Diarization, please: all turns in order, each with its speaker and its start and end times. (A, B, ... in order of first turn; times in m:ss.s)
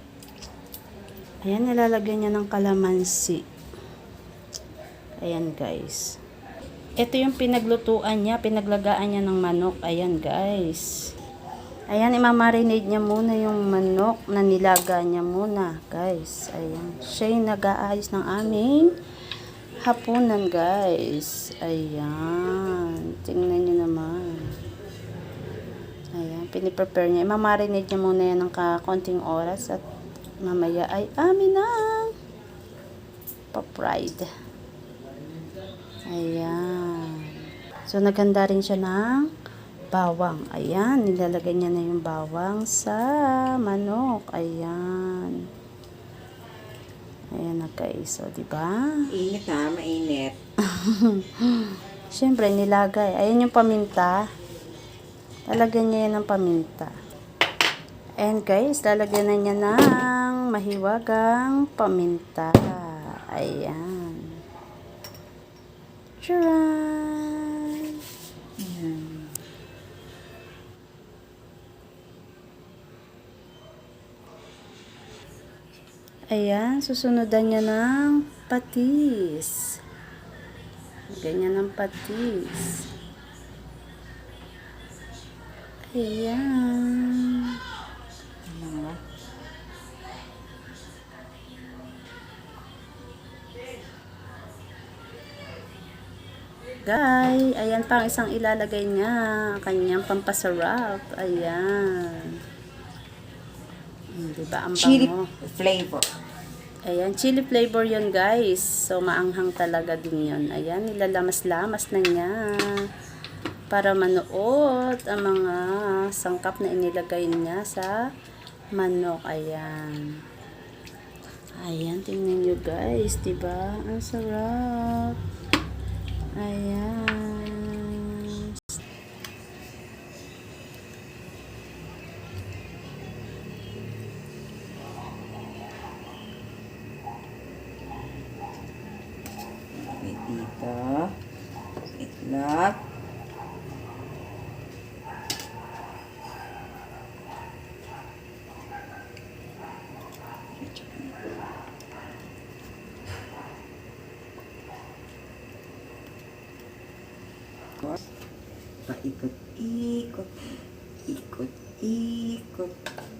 0:01.4-0:03.4 A
0:05.2-0:06.2 A
0:07.0-0:11.1 A
0:11.9-0:18.9 A
0:19.8-0:24.6 A
0:26.1-0:29.8 A
0:30.4-0:32.1 A
0:33.5-0:34.3 A
0:36.1-0:39.3 A
0:39.9-0:45.4 A
0:47.3-0:49.0 A
0:49.1-0:50.4 B
0:50.6-0:54.3 A
0:55.5-0:56.9 A
0:58.2-1:04.4 A
1:06.2-1:08.0 A
1:08.6-1:09.3 B
1:16.3-1:19.8 A
1:21.1-1:22.8 A
1:25.9-1:27.6 A
1:28.4-1:29.0 B
1:36.8-1:42.4 A
1:44.1-1:45.3 A
1:44.8-1:46.0 B
1:46.9-1:52.8 A
1:53.7-1:58.0 A
1:58.8-2:00.2 A
2:01.6-2:05.2 A
2:06.4-2:08.8 A
2:19.7-2:21.1 B
2:22.0-2:22.8 B
2:30.5-2:31.2 B
2:38.9-2:40.5 B
2:41.0-2:42.8 B